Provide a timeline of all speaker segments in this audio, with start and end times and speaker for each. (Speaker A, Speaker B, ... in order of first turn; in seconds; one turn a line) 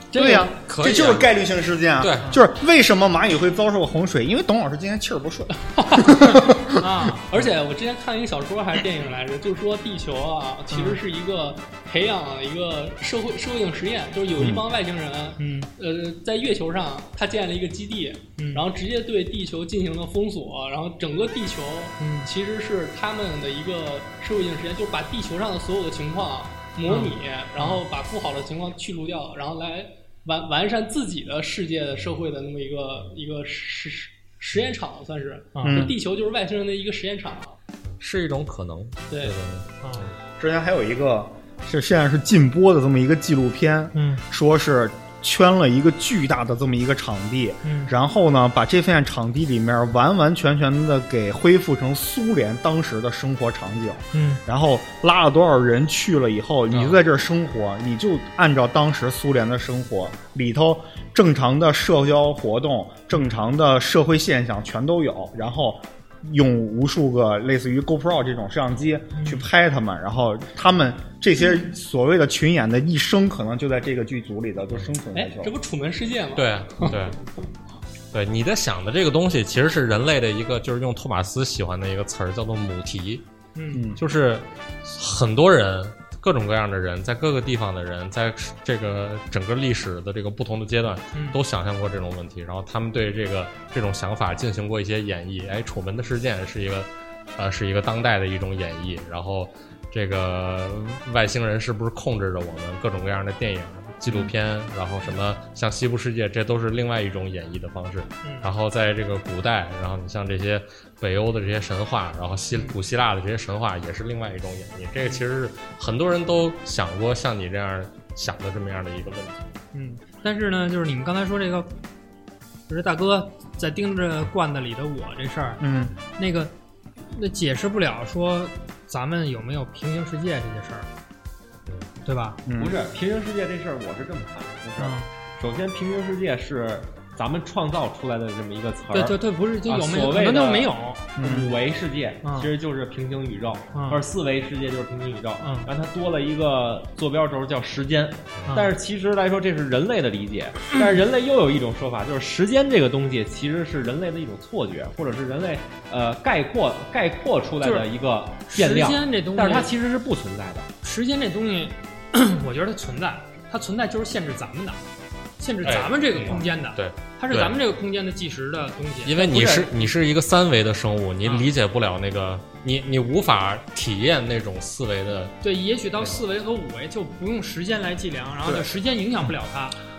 Speaker A: 0.1-0.5
Speaker B: 0.1-6.7
Speaker C: 0.7-1.3
Speaker C: 2.0-2.3
Speaker A: 5.7-6.3
Speaker D: 6.1-7.3
Speaker A: 7.3-37.6
Speaker D: 10.7-11.0
Speaker B: 14.4-14.6
Speaker D: 15.4-15.7
Speaker D: 18.4-18.6
Speaker D: 22.0-22.3
Speaker D: 26.9-27.8
Speaker D: 35.5-35.9
Speaker B: 35.6-35.9
Speaker C: 38.0-40.1
Speaker A: 39.1-39.4
Speaker D: 39.8-40.1
Speaker B: 40.4-75.5
Speaker D: 43.9-44.2
Speaker D: 47.6-47.9
Speaker D: 54.1-54.4
Speaker C: 56.7-57.0
Speaker D: 69.1-69.5
Speaker A: 75.1-77.0
Speaker C: 76.4-77.2
Speaker C: 78.1-83.2
Speaker D: 83.5-83.8
Speaker B: 83.7-84.0
Speaker C: 84.0-119.5
Speaker D: 91.1-91.4
Speaker D: 108.2-108.5
Speaker D: 119.7-121.8
Speaker D: 122.7-125.6
Speaker B: 125.6-125.9
Speaker D: 126.2-126.5
Speaker D: 127.1-130.9
Speaker D: 132.1-132.4
Speaker B: 132.5-132.8
Speaker E: 132.5-160.7
Speaker D: 134.8-135.1
Speaker D: 138.9-141.1
Speaker B: 141.2-141.5
Speaker D: 142.2-142.5
Speaker D: 143.7-144.0
Speaker D: 145.4-145.7
Speaker D: 148.5-148.8
Speaker D: 157.6-157.9
Speaker D: 158.5-159.7
Speaker D: 160.8-164.8
Speaker D: 165.4-169.2
Speaker C: 165.6-167.6
Speaker C: 169.1-175.3
Speaker E: 169.2-169.8
Speaker D: 171.2-171.5
Speaker D: 175.4-179.8